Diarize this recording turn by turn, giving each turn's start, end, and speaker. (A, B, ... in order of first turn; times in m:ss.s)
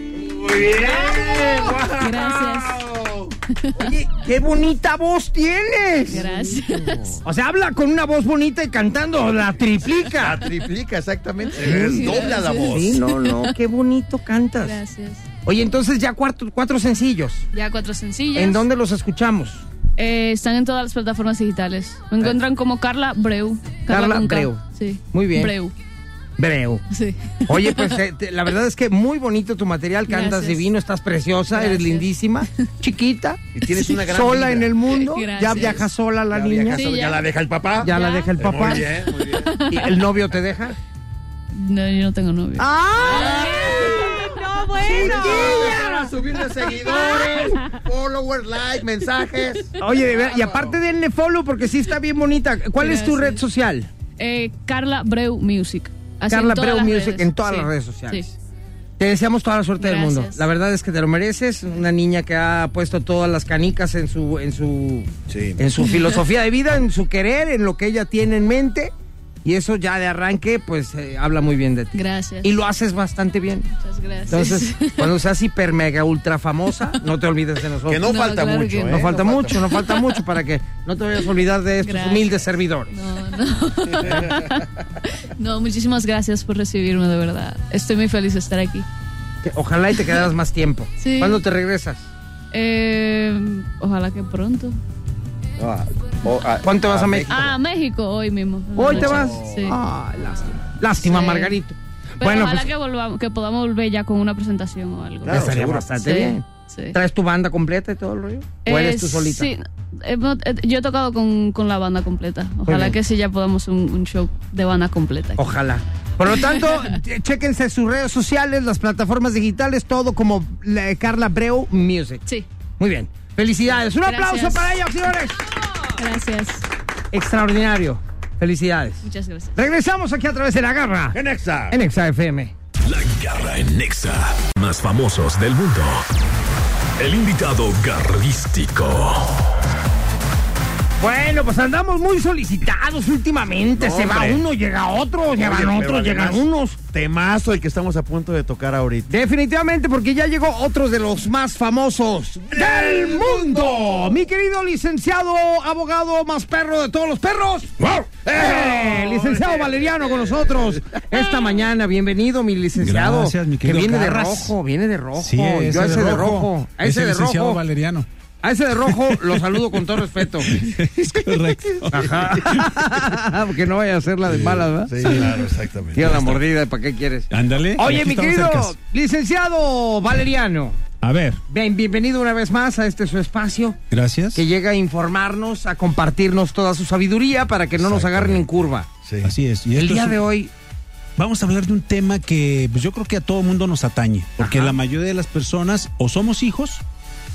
0:00.2-0:03.3 A
0:00.5-0:01.9 B
0:02.0-0:02.8 C
0:03.6-0:03.9 C
0:03.8-0:06.3 B
0:06.1-0:07.2 C
0:06.1-0:07.2 A
0:07.2-0:10.4 B
0:10.1-0:13.0 A
0:11.6-0:14.8 B
0:11.6-0:13.5 C
0:14.6-0:15.2 C
0:15.4-0:17.4 B
0:17.5-0:18.6 C
0:18.3-0:19.6 B
0:20.0-0:25.7 C
0:23.9-0:24.6 B
0:25.1-0:25.5 B
0:26.4-0:26.8 B
0:26.9-0:28.0 C
0:27.5-0:36.8 B
0:30.1-0:30.6 C
0:31.5-0:32.1 C
0:33.5-0:34.7 A
0:33.7-0:34.0 C
0:34.9-0:35.9 C
0:36.3-0:39.6 A
0:36.7-0:37.2 C
0:37.8-0:38.9 B
0:37.9-0:38.8 C
0:39.3-0:39.9 C
0:39.7-0:40.8 B
0:41.5-0:44.4 C
0:42.6-0:44.2 B
0:43.0-0:44.2 A
0:43.0-0:45.8 D
0:44.8-0:46.1 B
0:44.8-0:50.8 A
0:46.9-0:47.6 C
0:49.8-0:53.9 B
0:52.8-0:53.4 C
0:54.2-0:58.2 C
0:56.3-0:58.3 B
0:59.0-1:08.9 B
0:59.8-1:00.4 C
1:05.3-1:05.6 A
1:09.4-1:13.7 B
1:11.9-1:12.6 C
1:13.8-1:15.1 C
1:14.3-1:18.0 B
1:17.9-1:19.7 A
1:18.0-1:19.0 C
1:18.9-1:22.9 B
1:19.7-1:20.1 C
1:21.8-1:22.4 C
1:22.9-1:28.8 C
1:24.0-1:24.5 A
1:29.4-1:32.1 B
1:31.0-1:31.4 C
1:32.5-1:34.8 C
1:35.6-1:37.6 A
1:36.6-1:37.3 B
1:37.3-1:39.8 C
1:38.8-1:42.7 B
1:38.9-1:39.6 A
1:41.0-1:41.6 C
1:42.2-1:45.4 C
1:45.2-1:45.9 A
1:45.3-1:49.5 B
1:46.0-1:47.0 C
1:48.6-1:55.4 C
1:52.6-1:53.0 B
1:55.4-2:02.2 B
1:56.3-1:57.0 C
2:02.8-2:05.4 B
2:04.0-2:04.8 C
2:06.0-2:06.6 C
2:07.1-2:09.0 B
2:09.0-2:09.6 C
2:09.6-2:11.2 B
2:11.1-2:11.8 A
2:11.7-2:12.5 B
2:12.8-2:16.0 E
2:17.0-2:19.4 E
2:21.0-2:26.8 B
2:23.8-2:24.4 A
2:25.3-2:29.1 A
2:29.1-2:47.6 B
2:32.5-2:34.2 A
2:38.1-2:41.6 A
2:42.8-2:44.5 F
2:45.2-2:48.1 F
2:48.4-2:50.6 B
2:48.8-2:49.9 F
2:50.4-2:52.6 F
2:51.2-2:52.6 A
2:51.9-2:55.4 B
2:54.4-2:56.2 A
2:55.0-2:55.3 F
2:55.9-3:00.8 B
2:56.0-2:56.4 F
2:57.3-2:58.8 F
3:01.0-3:01.4 F
3:01.5-3:03.8 B
3:03.9-3:04.4 F
3:04.3-3:08.9 B
3:07.8-3:08.4 A
3:09.0-3:09.3 A
3:09.2-3:10.2 F
3:09.7-3:10.5 B
3:11.2-3:16.8 F
3:14.4-3:14.8 B